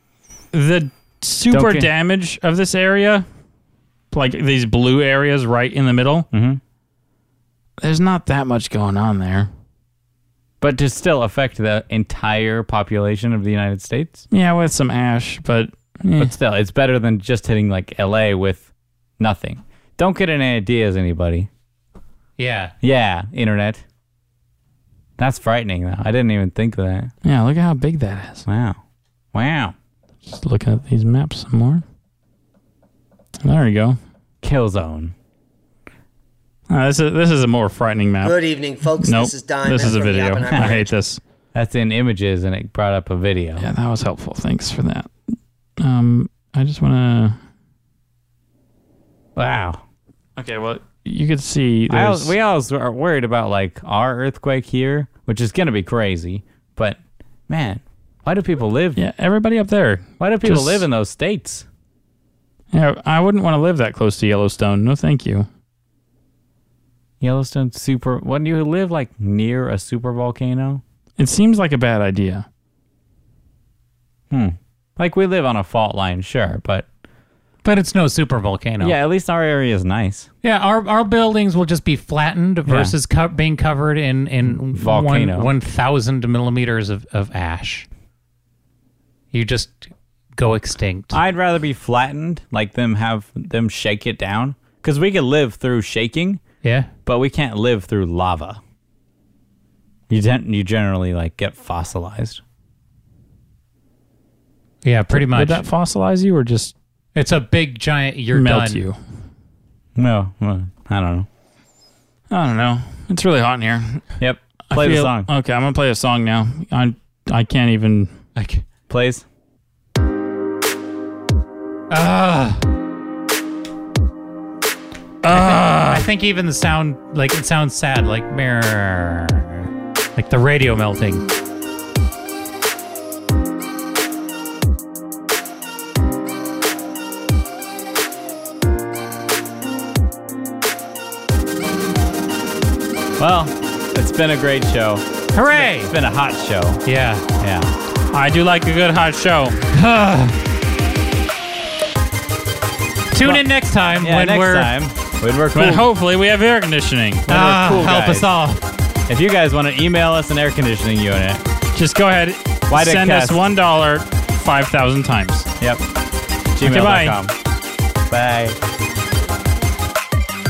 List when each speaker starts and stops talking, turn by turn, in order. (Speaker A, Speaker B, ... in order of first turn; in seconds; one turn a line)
Speaker A: 0.5-3.3
Speaker B: 1.5-1.9
Speaker A: 4.1-6.3
Speaker B: 6.3-6.6
Speaker A: 7.8-9.5
Speaker B: 10.6-14.2
Speaker A: 14.3-16.3
Speaker B: 16.2-18.7
Speaker B: 19.2-21.5
Speaker C: 22.4-22.7
Speaker B: 22.8-23.8
Speaker B: 25.2-27.1
Speaker A: 27.2-28.4
Speaker B: 28.5-28.8
Speaker B: 29.3-29.8
Speaker A: 30.3-31.8
Speaker A: 33.4-34.0
Speaker B: 34.4-35.1
Speaker A: 36.7-38.4
Speaker D: 38.2-40.9
Speaker A: 39.0-41.2
Speaker B: 40.5-40.8
Speaker B: 41.5-43.7
Speaker A: 43.6-45.1
Speaker A: 45.8-47.4
Speaker B: 49.4-49.8
Speaker A: 50.4-52.3
Speaker B: 51.9-59.0
Speaker A: 59.0-60.8
Speaker B: 60.2-61.7
Speaker A: 62.7-65.5
Speaker B: 67.2-70.8
Speaker A: 71.2-72.5
Speaker B: 74.3-76.9
Speaker C: 77.6-79.0
Speaker B: 78.8-80.3
Speaker C: 80.4-87.9
Speaker B: 82.7-82.9
Speaker B: 84.7-85.5
Speaker C: 89.3-91.2
Speaker B: 91.1-96.4
Speaker C: 96.6-96.9
Speaker B: 97.1-98.6
Speaker B: 100.1-102.4
Speaker C: 104.8-105.7
Speaker A: 105.1-106.7
Speaker C: 107.2-108.8
Speaker A: 108.3-109.0
Speaker B: 110.0-111.3
Speaker A: 112.3-114.0
Speaker B: 114.2-115.3
Speaker A: 114.7-118.1
Speaker C: 118.4-118.7
Speaker B: 118.9-119.2
Speaker C: 121.9-122.7
Speaker A: 125.2-126.1
Speaker C: 125.3-131.2
Speaker B: 143.2-146.8
Speaker C: 145.3-145.9
Speaker C: 146.8-147.4
Speaker B: 147.4-147.7
Speaker A: 148.1-149.6
Speaker C: 149.7-150.4
Speaker C: 153.1-154.7
Speaker B: 154.0-155.9
Speaker A: 155.6-157.3
Speaker B: 157.3-158.3
Speaker C: 157.3-158.6
Speaker B: 159.1-161.4
Speaker A: 161.8-165.5
Speaker B: 162.7-163.4
Speaker B: 166.5-167.3
Speaker A: 166.6-167.2
Speaker B: 168.1-168.6